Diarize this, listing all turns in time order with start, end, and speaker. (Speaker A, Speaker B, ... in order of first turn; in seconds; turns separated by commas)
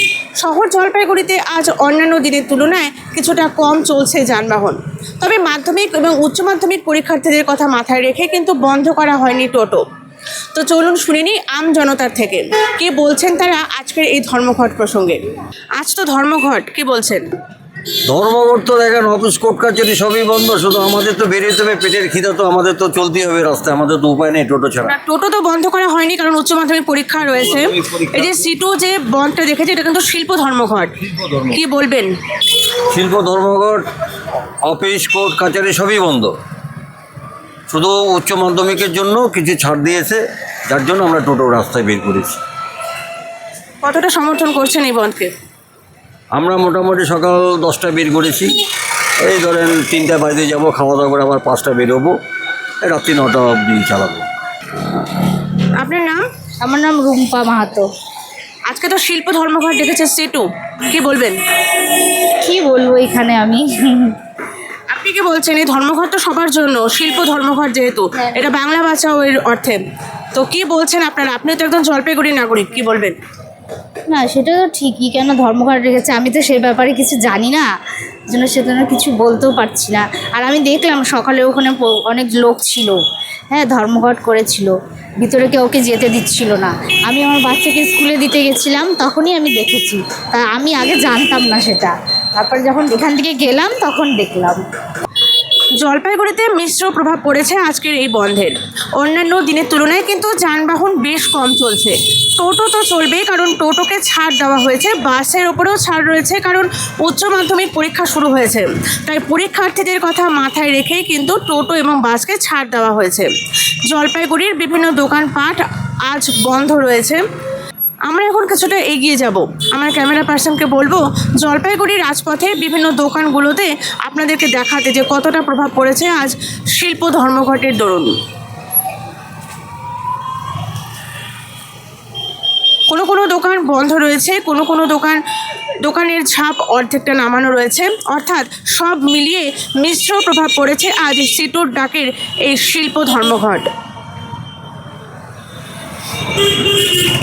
Speaker A: 0.4-9.8, Speaker A: 10.5-15.2, Speaker A: 15.8-17.3, Speaker B: 18.1-24.9, Speaker A: 24.8-30.9, Speaker B: 27.9-28.3, Speaker B: 31.1-31.5, Speaker A: 31.5-32.1, Speaker B: 32.9-33.8, Speaker B: 34.6-36.4, Speaker B: 37.7-42.4, Speaker A: 43.8-45.3, Speaker B: 46.3-48.6, Speaker B: 49.2-52.1, Speaker B: 52.8-54.2, Speaker A: 55.8-56.2, Speaker C: 56.6-57.9, Speaker A: 58.7-61.4, Speaker C: 62.4-64.2, Speaker A: 64.9-69.8, Speaker A: 70.3-73.2, Speaker C: 74.1-77.7, Speaker C: 78.3-83.0, Speaker C: 83.5-94.6, Speaker A: 95.8-113.3, Speaker A: 113.9-117.2, Speaker A: 118.1-128.2, Speaker A: 132.9-135.2, Speaker A: 135.8-143.7